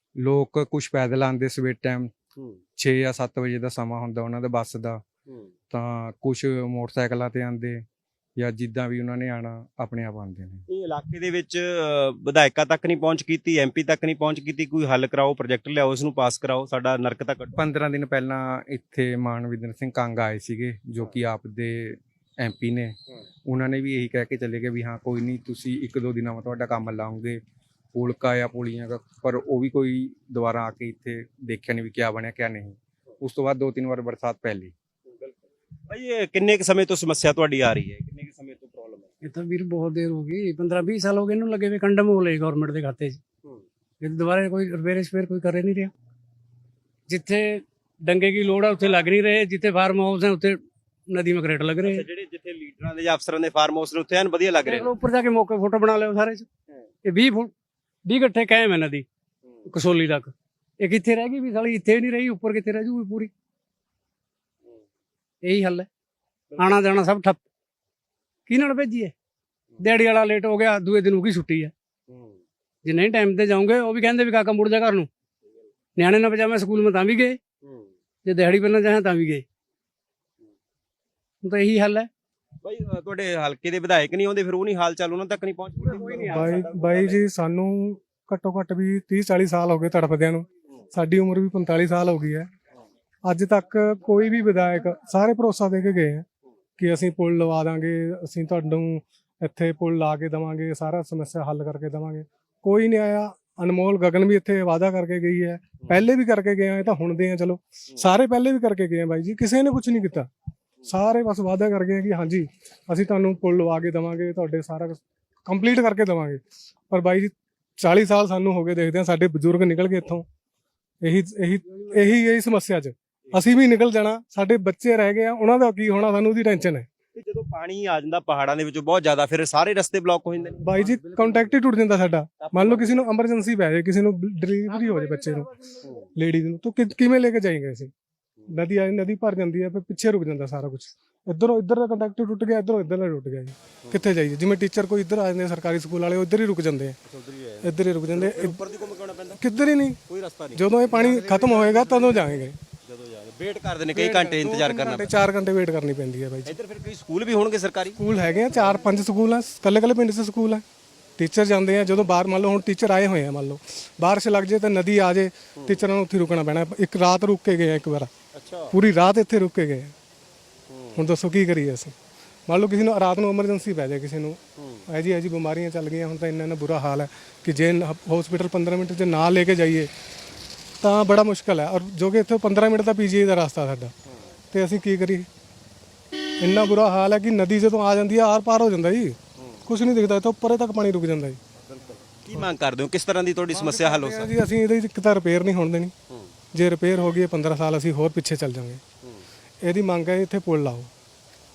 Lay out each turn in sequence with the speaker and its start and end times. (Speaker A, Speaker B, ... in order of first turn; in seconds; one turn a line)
Speaker A: 0.2-2.1
Speaker A: 2.8-5.0
Speaker A: 5.7-7.8
Speaker A: 8.4-10.6
Speaker B: 10.7-17.6
Speaker A: 17.6-27.4
Speaker A: 27.9-34.7
Speaker B: 35.1-35.4
Speaker B: 35.9-39.1
Speaker C: 39.2-43.2
Speaker C: 44.0-45.9
Speaker C: 47.1-52.0
Speaker B: 51.8-54.9
Speaker C: 54.6-56.5
Speaker C: 57.0-57.5
Speaker C: 58.1-59.0
Speaker C: 59.7-63.3
Speaker C: 65.5-65.9
Speaker C: 66.6-67.4
Speaker C: 68.5-69.1
Speaker C: 69.8-71.7
Speaker B: 72.1-72.4
Speaker C: 72.8-75.1
Speaker C: 76.0-77.4
Speaker B: 77.6-77.9
Speaker C: 78.2-79.4
Speaker C: 81.4-82.1
Speaker B: 82.6-87.2
Speaker C: 85.9-86.6
Speaker D: 86.3-92.5
Speaker D: 93.2-96.2
Speaker D: 96.8-110.3
Speaker D: 110.9-120.2
Speaker D: 121.0-126.9
Speaker B: 127.2-130.9
Speaker D: 130.7-135.5
Speaker B: 132.4-133.1
Speaker C: 134.9-135.3
Speaker B: 135.8-136.1
Speaker D: 136.2-137.9
Speaker D: 138.5-147.0
Speaker B: 147.1-149.4
Speaker D: 147.6-148.6
Speaker D: 149.4-150.0
Speaker B: 150.1-152.3
Speaker D: 150.6-152.6
Speaker B: 152.8-155.1
Speaker D: 153.9-156.5
Speaker B: 156.4-158.0
Speaker D: 158.0-160.6
Speaker D: 161.2-168.1
Speaker B: 168.3-168.7
Speaker D: 168.7-169.9
Speaker B: 170.7-171.0
Speaker D: 171.0-171.9
Speaker D: 172.5-179.9
Speaker B: 174.6-174.8
Speaker D: 180.8-183.9
Speaker D: 184.5-185.3
Speaker D: 186.4-191.4
Speaker B: 191.7-194.4
Speaker D: 193.5-195.9
Speaker D: 196.5-198.8
Speaker D: 199.6-200.9